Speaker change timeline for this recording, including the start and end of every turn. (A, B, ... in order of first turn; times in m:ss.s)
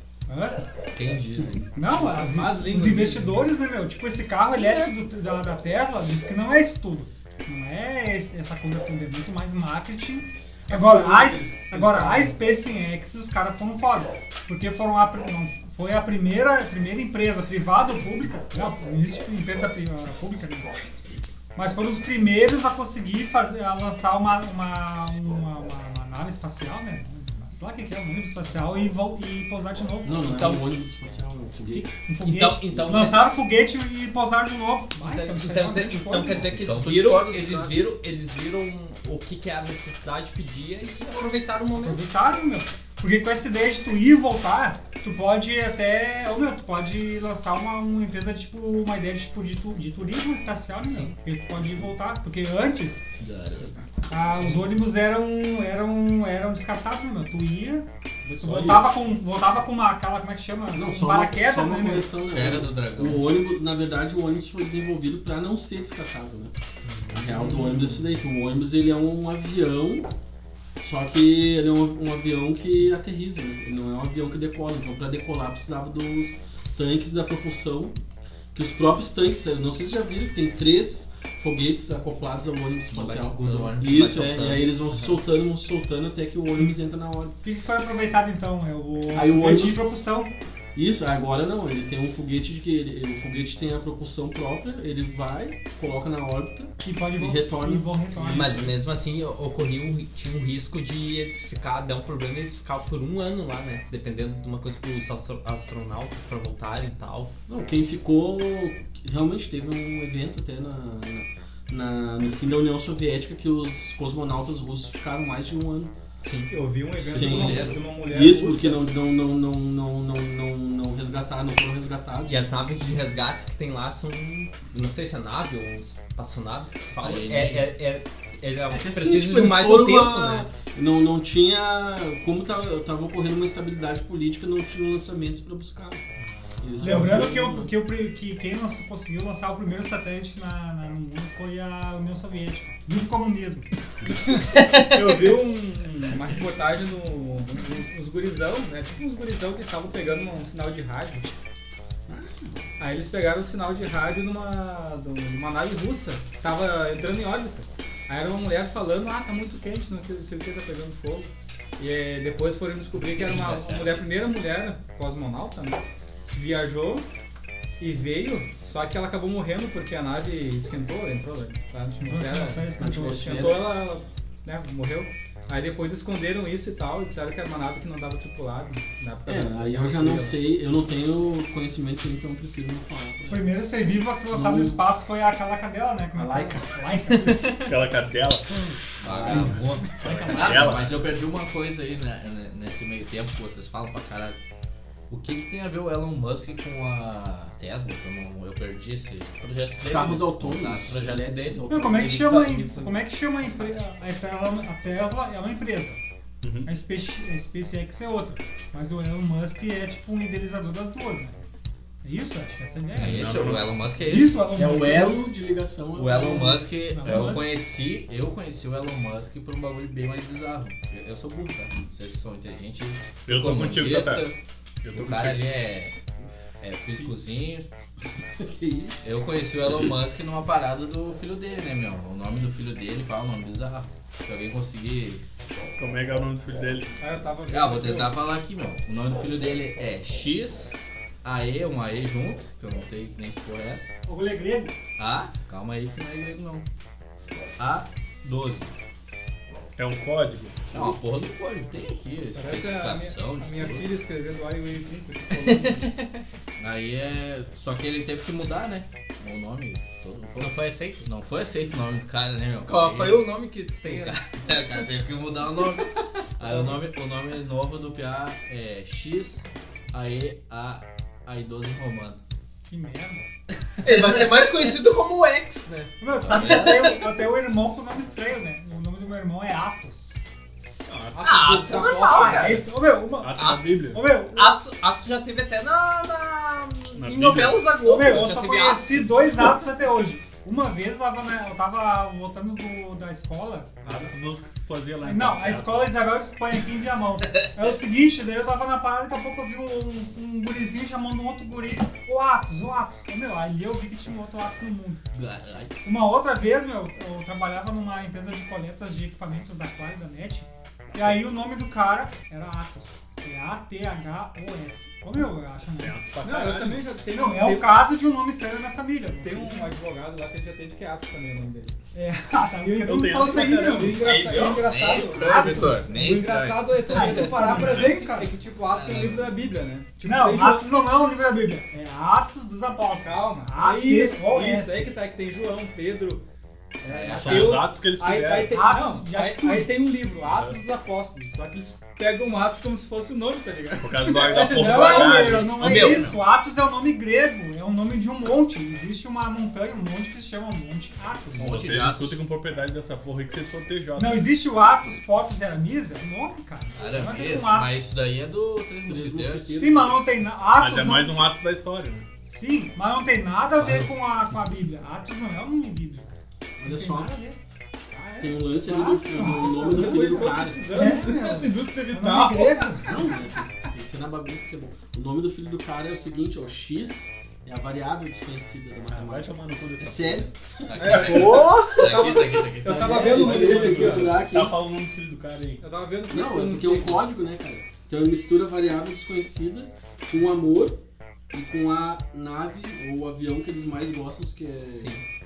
0:00.3-0:00.7 A
0:00.9-0:01.8 B
0:01.8-0:20.8 A
0:02.0-0:03.4 C
0:04.5-0:04.9 C
0:10.7-0:12.4 D
0:21.6-0:30.5 A
0:30.0-0:32.0 D
0:30.4-0:30.6 C
0:31.7-0:36.5 A
0:32.2-0:33.3 C
0:35.0-0:42.0 C
0:36.3-0:37.9 B
0:41.8-0:53.1 A
0:50.8-0:51.1 C
0:53.2-0:53.8 B
0:54.1-0:57.9 A
0:58.2-0:58.9 D
0:58.4-1:02.3 A
1:00.7-1:06.5 D
1:02.3-1:03.3 B
1:06.9-1:08.0 C
1:07.1-1:10.1 D
1:10.8-1:18.0 D
1:18.5-1:27.4 D
1:22.9-1:24.4 B
1:23.6-1:24.7 C
1:27.4-1:30.3 A
1:29.1-1:29.8 D
1:30.8-1:38.6 D
1:36.8-1:38.7 A
1:38.3-1:47.3 C
1:47.5-1:55.9 D
1:56.2-1:56.5 C
1:56.5-1:58.8 E
1:57.0-1:57.8 B
1:57.1-2:02.4 D
2:02.3-2:10.5 C
2:07.0-2:07.7 B
2:08.7-2:16.0 D
2:16.6-2:17.7 D
2:16.7-2:17.2 B
2:16.8-2:23.7 A
2:24.5-2:25.1 C
2:24.8-2:31.3 E
2:32.1-2:32.7 D
2:32.8-2:47.1 E
2:43.0-2:44.1 B
2:47.8-3:00.4 E
2:52.0-2:53.3 A
2:52.8-2:53.8 D
2:59.3-3:03.5 D
3:03.3-3:07.6 A
3:04.3-3:04.8 D
3:06.2-3:06.8 D
3:07.1-3:07.7 C
3:07.7-3:08.7 F
3:09.0-3:09.8 D
3:09.0-3:14.4 B
3:10.0-3:11.0 F
3:15.1-3:21.0 B
3:19.5-3:20.2 C
3:19.8-3:22.4 D
3:20.8-3:23.0 C
3:21.7-3:26.0 A
3:26.4-3:26.7 F
3:26.6-3:31.4 A
3:32.0-3:33.4 A
3:33.0-3:33.7 F
3:33.0-3:35.1 B
3:34.0-3:35.2 A
3:34.5-3:37.4 D
3:36.0-3:44.4 B
3:36.8-3:37.5 A
3:43.3-3:44.3 F
3:44.8-3:45.5 F
3:45.0-3:46.0 B
3:46.6-3:47.7 B
3:48.4-3:49.1 D
3:49.0-3:55.2 B
3:55.8-3:56.9 F
3:57.0-3:58.2 E
3:57.5-4:04.0 B
4:04.1-4:04.8 A
4:05.0-4:06.6 B
4:07.6-4:08.7 B
4:09.8-4:10.6 F
4:10.7-4:13.9 B
4:12.4-4:16.0 E
4:15.4-4:16.1 C
4:16.6-4:23.2 B
4:20.4-4:21.0 C
4:22.7-4:24.2 C
4:23.8-4:32.2 B
4:32.7-4:33.3 A
4:33.8-4:37.0 C
4:36.0-4:40.3 A
4:36.2-4:36.9 B
4:40.9-4:41.3 F
4:41.1-4:42.7 E
4:41.2-4:42.7 C
4:41.7-4:44.6 A
4:43.2-4:44.1 F
4:43.4-4:49.5 C
4:47.0-4:47.7 F
4:47.8-4:54.1 A
4:53.8-4:56.0 F
4:55.0-5:05.0 A
4:57.4-4:57.7 B
5:05.1-5:05.9 B
5:05.8-5:16.1 A
5:15.8-5:16.9 F
5:16.2-5:17.8 E
5:17.1-5:19.7 A
5:19.2-5:21.8 E
5:21.9-5:24.6 A
5:22.8-5:24.4 F
5:23.1-5:30.9 E
5:24.0-5:24.6 C
5:24.4-5:27.7 B
5:25.2-5:26.2 A
5:26.7-5:28.3 A
5:28.7-5:29.4 B
5:30.0-5:34.9 A
5:33.0-5:36.2 E
5:36.8-5:45.2 E
5:36.9-5:37.7 B
5:37.1-5:38.6 F
5:38.5-5:39.8 A
5:40.2-5:40.6 F
5:43.8-5:46.1 F
5:44.2-5:51.6 A
5:45.6-5:46.1 C
5:45.6-5:46.2 B
5:51.4-5:52.2 B
5:51.4-5:54.3 F
5:54.0-5:57.7 A
5:56.8-5:59.5 B
5:58.9-6:00.0 D
5:59.6-6:01.2 A
6:00.6-6:02.1 F
6:02.2-6:07.4 A
6:03.6-6:03.9 B
6:06.6-6:07.1 D
6:07.9-6:13.7 E
6:08.2-6:10.7 D
6:08.6-6:13.1 A
6:12.8-6:21.8 D
6:18.9-6:20.3 F
6:20.7-6:23.0 B
6:20.8-6:24.2 E
6:21.1-6:22.0 C
6:22.6-6:24.6 D
6:23.0-6:25.6 F
6:25.6-6:27.0 E
6:26.1-6:30.8 D
6:31.3-6:35.0 D
6:34.7-6:35.0 C